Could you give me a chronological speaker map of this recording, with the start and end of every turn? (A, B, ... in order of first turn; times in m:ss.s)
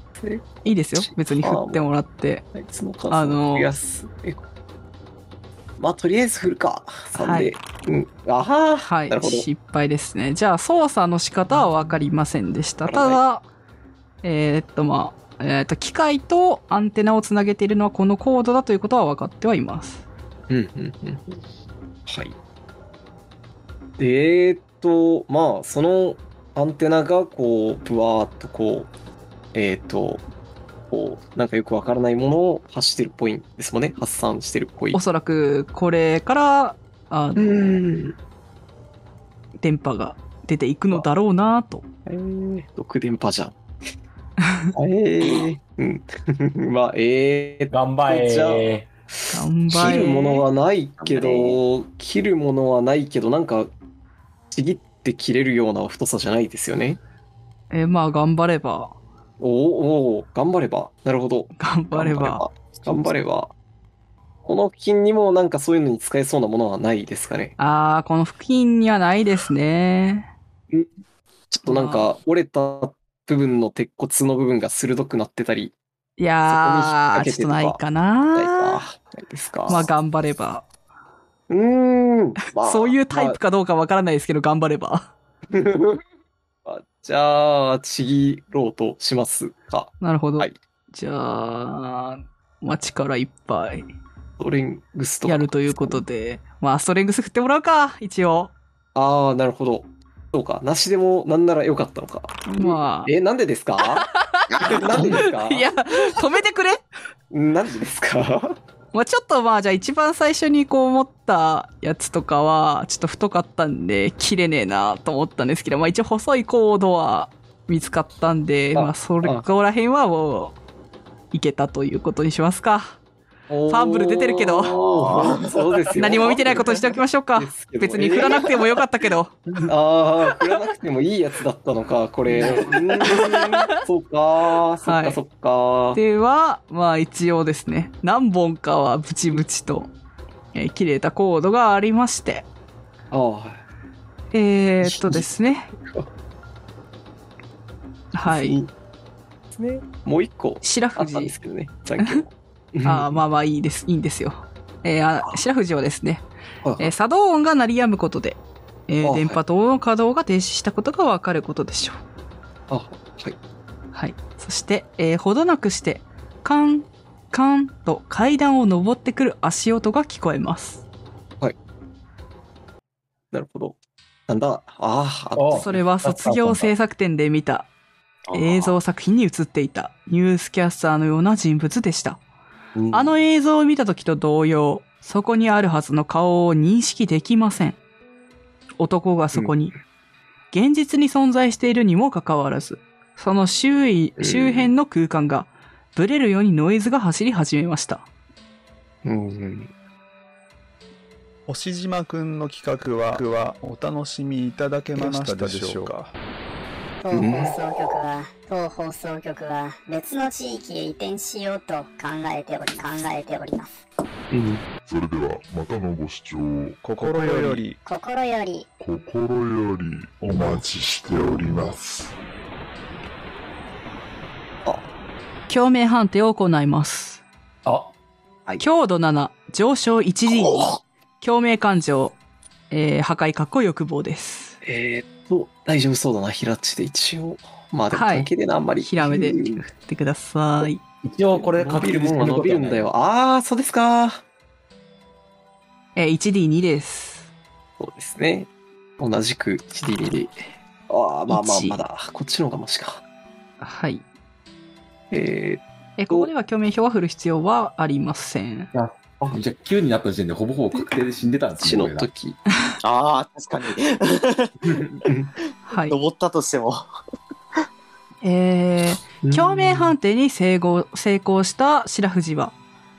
0:00.2-0:01.8 A
0:00.6-0:02.4 B
0:02.5-0:04.4 A
0:03.1-0:03.7 B
0:05.8-0:09.4 A
0:07.2-0:07.5 B
0:08.8-0:13.4 B
0:12.8-0:13.2 A
0:14.2-0:20.0 B
0:20.5-0:21.2 A
0:22.1-0:22.3 A
0:24.0-0:28.9 A
0:29.5-0:30.2 A
0:30.9-0:35.0 A
0:34.9-0:37.8 B
0:37.4-0:38.2 A
0:39.6-0:41.8 B
0:42.0-0:43.5 A
0:44.7-0:53.7 A
0:47.7-0:48.8 C
0:49.3-0:50.4 B
0:51.0-0:51.6 D
0:54.5-0:57.0 A
0:57.7-0:58.9 B
0:59.4-1:03.5 A
1:01.6-1:02.4 B
1:04.4-1:07.5 A
1:07.6-1:10.3 B
1:11.5-1:15.7 A
1:11.6-1:12.1 B
1:16.2-1:18.8 B
1:16.5-1:17.8 A
1:18.3-1:19.9 A
1:19.7-1:20.6 B
1:21.5-1:23.4 A
1:22.6-1:25.1 B
1:25.5-1:26.0 A
1:26.6-1:30.5 A
1:30.0-1:33.9 B
1:34.4-1:36.0 A
1:35.2-1:38.5 B
1:38.9-1:44.1 A
1:42.5-1:43.1 B
1:43.9-1:46.8 B
1:44.5-1:45.2 D
1:44.6-1:45.7 A
1:47.3-1:48.6 A
1:48.9-2:00.6 B
1:58.7-1:59.4 A
2:01.3-2:03.0 B
2:03.5-2:08.6 A
2:03.7-2:04.7 B
2:04.7-2:05.5 D
2:06.0-2:09.4 B
2:09.6-2:16.0 A
2:13.0-2:13.8 B
2:14.8-2:15.2 B
2:15.9-2:19.9 B
2:20.5-2:22.4 B
2:23.1-2:23.6 A
2:24.3-2:25.7 B
2:24.8-2:25.3 A
2:28.1-2:28.6 B
2:28.2-2:28.7 A
2:29.5-2:33.2 A
2:30.6-2:31.3 B
2:32.8-2:36.2 B
2:36.6-2:36.9 A
2:36.8-2:42.0 B
2:39.0-2:39.4 A
2:42.7-2:43.4 A
2:43.9-2:50.8 B
2:53.3-2:53.8 A
2:54.3-2:56.3 A
2:55.4-2:55.7 C
2:55.5-2:57.7 B
2:56.3-2:56.7 C
2:58.3-2:58.8 D
2:58.3-3:02.2 B
3:02.8-3:03.2 A
3:02.9-3:07.8 B
3:08.8-3:09.7 B
3:10.5-3:18.0 B
3:14.2-3:14.7 A
3:19.0-3:19.7 A
3:21.5-3:26.1 E
3:27.0-3:33.7 F
3:27.1-3:27.6 A
3:34.3-3:34.6 A
3:34.8-3:37.5 G
3:36.8-3:37.8 E
3:37.8-3:38.7 F
3:38.8-3:42.1 G
3:45.5-3:47.2 B
3:47.6-3:47.9 C
3:48.6-3:52.2 B
3:50.5-3:50.8 D
3:52.7-3:54.6 B
3:54.6-3:59.6 A
3:57.9-3:58.3 B
3:58.8-4:00.8 B
4:01.0-4:02.9 C
4:01.3-4:04.2 A
4:06.0-4:07.3 B
4:07.8-4:13.0 A
4:11.3-4:11.8 B
4:13.6-4:14.0 B
4:15.1-4:16.3 A
4:16.0-4:18.7 B
4:18.7-4:22.1 C
4:21.6-4:22.4 A
4:22.8-4:24.8 D
4:25.0-4:25.3 A
4:25.7-4:25.9 B
4:25.9-4:26.8 D
4:28.2-4:32.5 B
4:29.2-4:30.0 A